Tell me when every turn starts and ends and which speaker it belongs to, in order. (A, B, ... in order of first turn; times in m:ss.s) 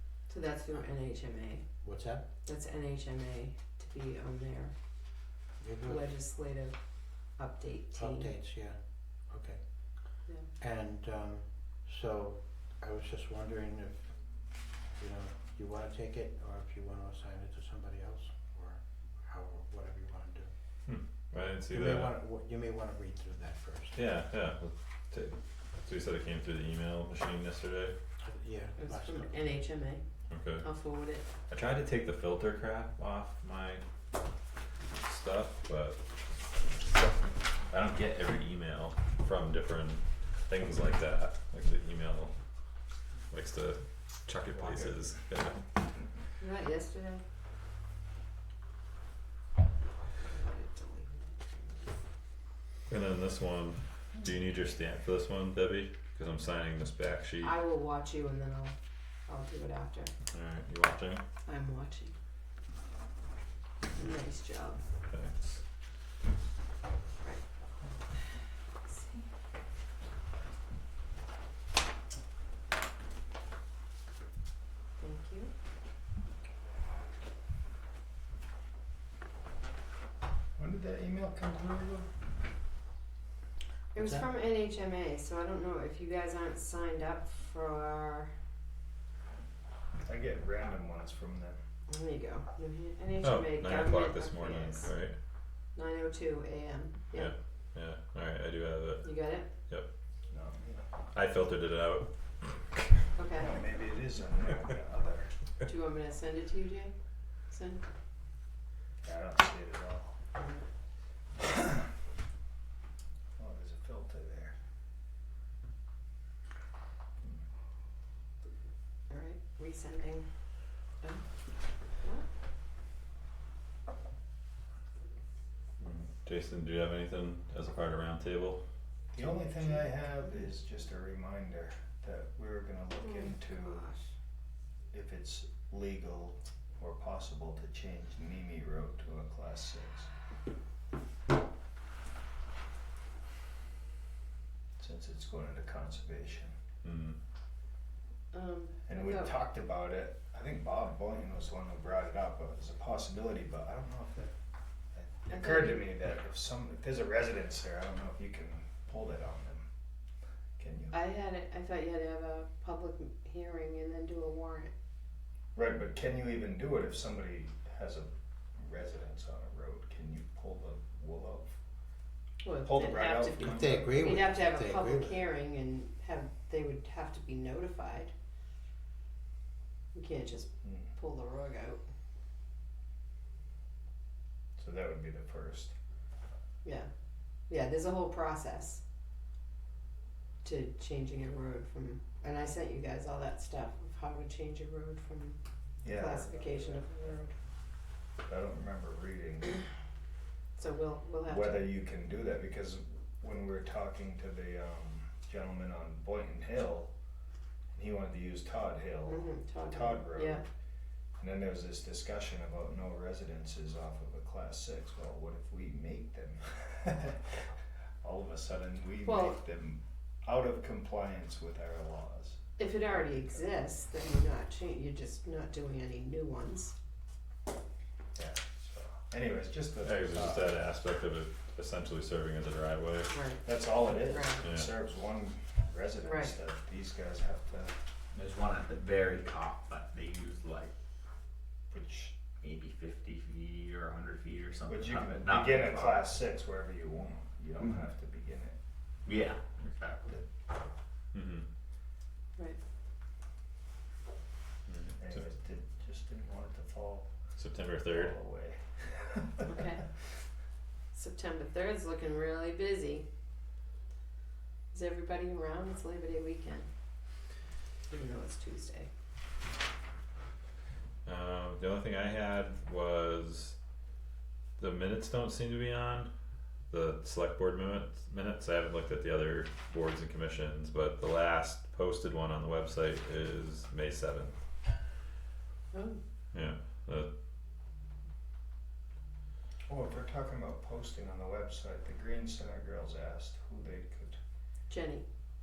0:00.3-0:01.6 A
0:01.8-0:02.3 B
0:02.4-0:04.7 A
0:05.6-0:06.1 B
0:05.8-0:06.8 A
0:07.4-0:08.3 A
0:07.9-0:09.6 B
0:10.6-0:14.1 B
0:14.9-0:20.5 B
0:20.8-0:22.1 C
0:21.7-0:24.0 B
0:23.9-0:27.9 C
0:28.2-0:29.6 B
0:28.8-0:30.0 A
0:30.3-0:30.6 C
0:30.6-0:31.3 A
0:31.5-0:33.8 C
0:35.0-0:36.0 C
0:37.7-0:42.3 C
0:43.3-0:45.6 C
0:46.4-0:47.2 A
0:50.2-0:51.9 A
0:52.9-0:57.6 C
0:57.4-0:58.7 A
0:59.3-1:00.1 A
1:00.3-1:01.2 C
1:01.4-1:02.1 A
1:03.9-1:04.8 A
1:05.1-1:05.6 C
1:15.0-1:15.5 A
1:20.6-1:22.1 D
1:23.9-1:28.3 A
1:30.0-1:31.6 D
1:31.9-1:34.9 A
1:33.2-1:35.2 C
1:35.7-1:37.3 A
1:37.1-1:39.2 C
1:39.0-1:39.4 A
1:40.3-1:40.8 D
1:41.1-1:42.1 C
1:43.2-1:43.5 A
1:43.3-1:45.3 D
1:45.6-1:46.9 A
1:47.5-1:47.8 A
1:49.0-1:50.2 D
1:50.4-1:50.6 A
1:53.4-1:54.6 D
1:59.1-2:00.2 A
2:05.8-2:08.6 C
2:09.1-2:13.8 D
2:13.0-2:14.0 A
2:14.9-2:20.1 D
2:24.8-2:26.5 D
2:26.8-2:27.2 C
2:28.3-2:29.3 A
2:28.8-2:34.3 D
2:34.9-2:39.7 D
2:35.3-2:35.8 A
2:40.6-2:40.9 D
2:40.9-2:44.7 A
2:45.5-2:51.5 D
2:52.4-2:58.1 A
2:52.6-2:54.2 D
2:53.3-2:55.2 B
2:59.9-3:01.8 A
3:04.6-3:05.7 D
3:07.5-3:08.8 A
3:10.4-3:17.3 A
3:15.8-3:17.2 D
3:18.2-3:19.6 D
3:20.6-3:21.7 A
3:21.2-3:26.9 D
3:27.7-3:30.4 D
3:29.1-3:30.4 A
3:31.2-3:37.5 D
3:38.0-3:43.4 D
3:39.0-3:39.4 A
3:42.6-3:46.7 A
3:48.2-3:50.5 D
3:49.8-3:53.1 C
3:53.1-3:54.4 A
3:53.4-3:57.8 D
3:54.4-3:54.7 C
3:56.0-3:56.3 A
3:58.1-4:00.7 E
4:01.7-4:02.2 D
4:02.4-4:06.0 E
4:04.7-4:08.6 D
4:09.1-4:10.2 E
4:11.1-4:11.5 C
4:14.7-4:15.2 C
4:15.0-4:17.1 D
4:17.4-4:18.1 C
4:17.8-4:19.5 D
4:19.5-4:19.8 A
4:20.9-4:23.1 A
4:24.7-4:26.7 A
4:27.9-4:28.9 A
4:31.0-4:33.6 C
4:34.6-4:36.1 C
4:36.7-4:44.4 C
4:45.7-4:46.0 A
4:46.3-4:47.1 C
4:49.7-4:54.2 D
4:54.7-4:55.0 A